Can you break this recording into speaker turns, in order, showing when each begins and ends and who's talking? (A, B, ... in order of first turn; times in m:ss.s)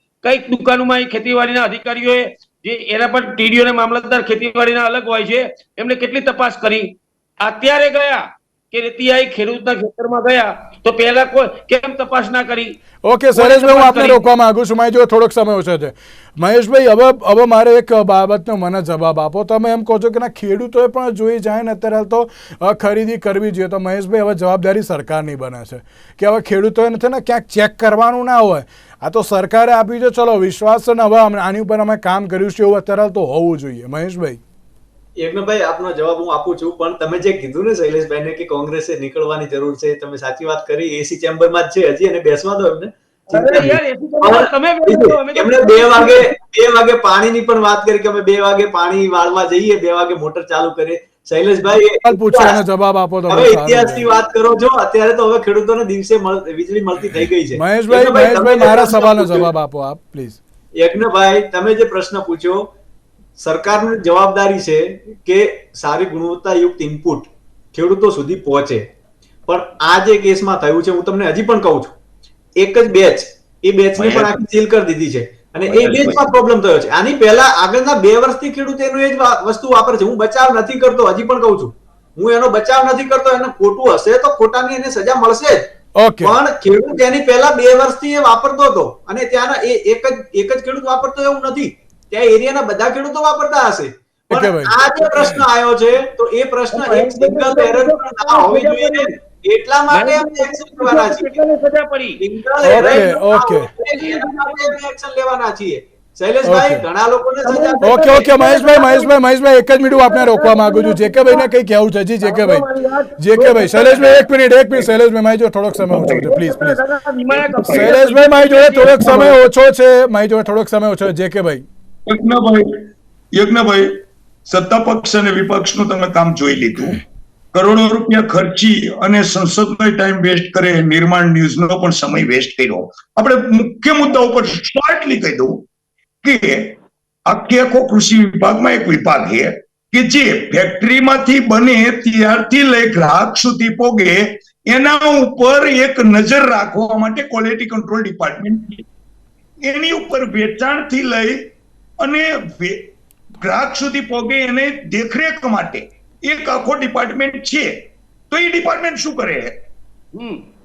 0:00.2-0:12.8 A
0:13.0-0:34.4 B
0:13.3-0:14.2 A
0:35.2-0:52.6 C
0:43.3-0:46.3 A
0:52.0-0:54.1 B
0:53.3-0:59.5 C
0:57.6-1:00.4 B
1:00.8-1:02.7 C
1:03.4-1:08.8 C
1:09.5-1:12.0 C
1:12.6-1:25.6 C
1:14.0-1:14.3 D
1:15.6-1:16.2 D
1:26.0-1:26.4 B
1:26.2-1:41.4 C
1:34.3-1:34.8 B
1:36.7-1:39.1 A
1:39.9-1:43.4 A
1:42.2-1:48.6 C
1:42.6-1:43.7 B
1:43.9-1:44.8 A
1:46.4-1:46.8 B
1:47.4-1:49.1 A
1:47.8-1:52.6 B
1:49.9-1:51.5 A
1:52.2-1:54.2 A
1:53.2-1:56.8 B
1:55.9-1:56.3 D
1:56.0-1:59.4 A
1:57.3-1:57.9 D
1:57.7-2:01.6 B
2:02.1-2:07.0 D
2:07.5-2:15.6 D
2:16.2-2:28.8 D
2:29.6-2:39.6 D
2:40.1-2:40.4 A